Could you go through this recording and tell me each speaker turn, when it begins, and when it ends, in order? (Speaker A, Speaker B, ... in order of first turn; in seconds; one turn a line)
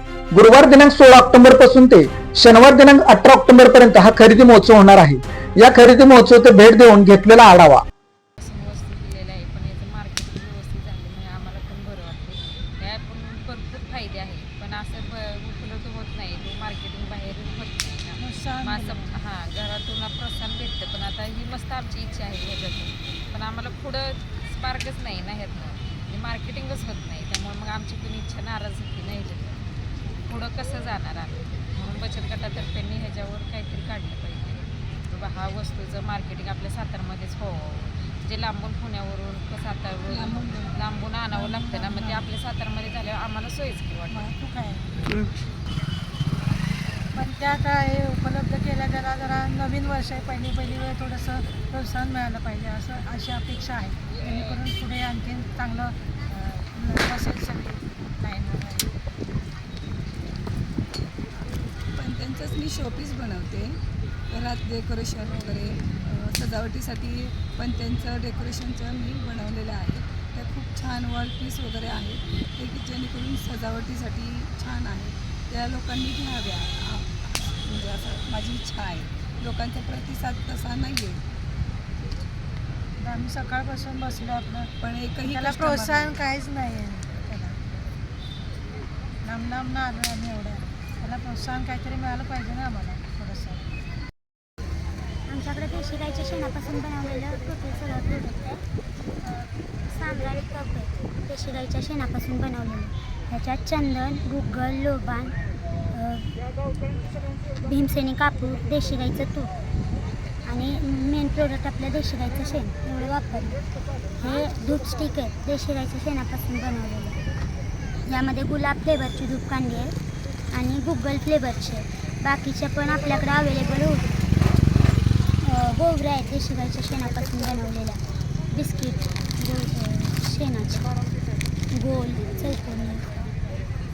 Speaker A: 0.3-7.8
Speaker B: 8.4-29.6
Speaker C: 18.2-19.2
Speaker B: 30.2-44.3
Speaker D: 40.1-40.8
Speaker C: 41.3-41.9
Speaker C: 44.1-45.0
Speaker C: 47.1-59.0
Speaker D: 61.9-81.2
Speaker C: 83.0-84.7
Speaker D: 84.8-86.2
Speaker C: 85.2-87.6
Speaker C: 89.2-93.7
Speaker E: 95.3-98.6
Speaker E: 99.2-105.3
Speaker E: 105.9-106.3
Speaker E: 107.6-109.5
Speaker E: 110.5-113.6
Speaker E: 114.2-117.2
Speaker E: 118.0-119.9
Speaker E: 120.5-124.1
Speaker E: 125.4-128.0
Speaker E: 128.5-130.9
Speaker E: 131.7-133.1